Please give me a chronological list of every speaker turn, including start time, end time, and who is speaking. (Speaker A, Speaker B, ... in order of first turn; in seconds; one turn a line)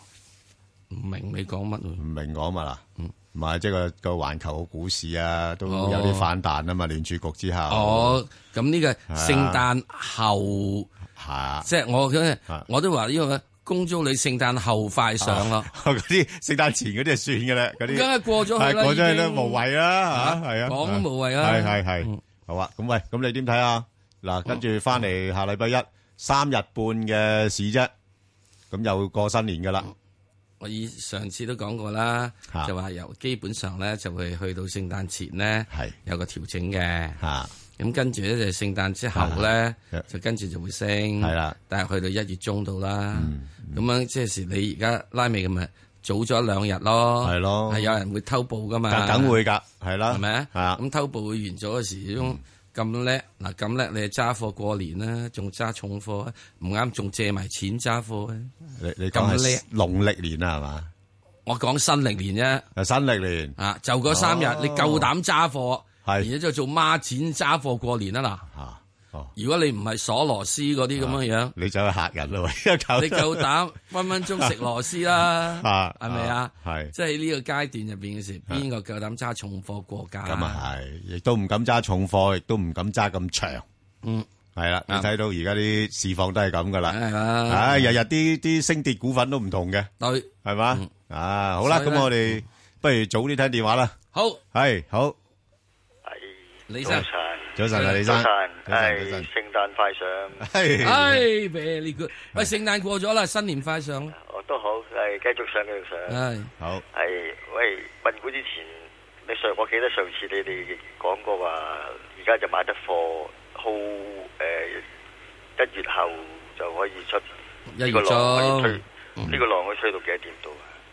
Speaker A: 0.9-2.0
Speaker B: 2.0-2.8
Speaker B: 3.3-8.2
Speaker A: 5.7-6.2
Speaker A: 7.7-10.9
Speaker B: 9.1-9.6
Speaker B: 11.2-11.7
Speaker A: 11.6-15.7
Speaker B: 15.2-27.9
Speaker A: 17.9-22.2
Speaker B: 28.7-29.9
Speaker A: 30.6-37.2
Speaker B: 37.2-37.5
Speaker A: 37.8-49.4
Speaker B: 39.1-40.0
Speaker B: 41.2-41.5
Speaker B: 43.1-43.8
Speaker B: 47.2-47.9
Speaker B: 48.9-50.8
Speaker A: 50.1-58.5
Speaker B: 58.8-60.9
Speaker A: 59.1-59.6
Speaker A: 61.5-62.7
Speaker B: 62.8-63.5
Speaker A: 63.6-68.5
Speaker B: 64.1-65.1
Speaker B: 68.5-69.3
Speaker A: 69.3-71.5
Speaker B: 71.0-73.4
Speaker A: 73.0-80.6
Speaker B: 75.5-76.9
Speaker B: 80.3-83.6
Speaker B: 84.5-87.0
Speaker A: 86.9-88.0
Speaker B: 87.5-89.9
Speaker A: 90.0-90.9
Speaker B: 90.4-93.9
Speaker A: 91.6-92.4
Speaker A: 94.1-94.4
Speaker B: 94.5-95.2
Speaker C: 96.0-100.4
Speaker A: 96.7-97.0
Speaker B: 97.5-99.3
Speaker A: 97.7-98.0
Speaker B: 100.4-101.2
Speaker A: 100.8-104.1
Speaker C: 104.1-106.2
Speaker A: 106.1-106.5
Speaker C: 106.9-114.8
Speaker C: 115.6-117.3
Speaker A: 117.7-119.3
Speaker C: 117.8-120.7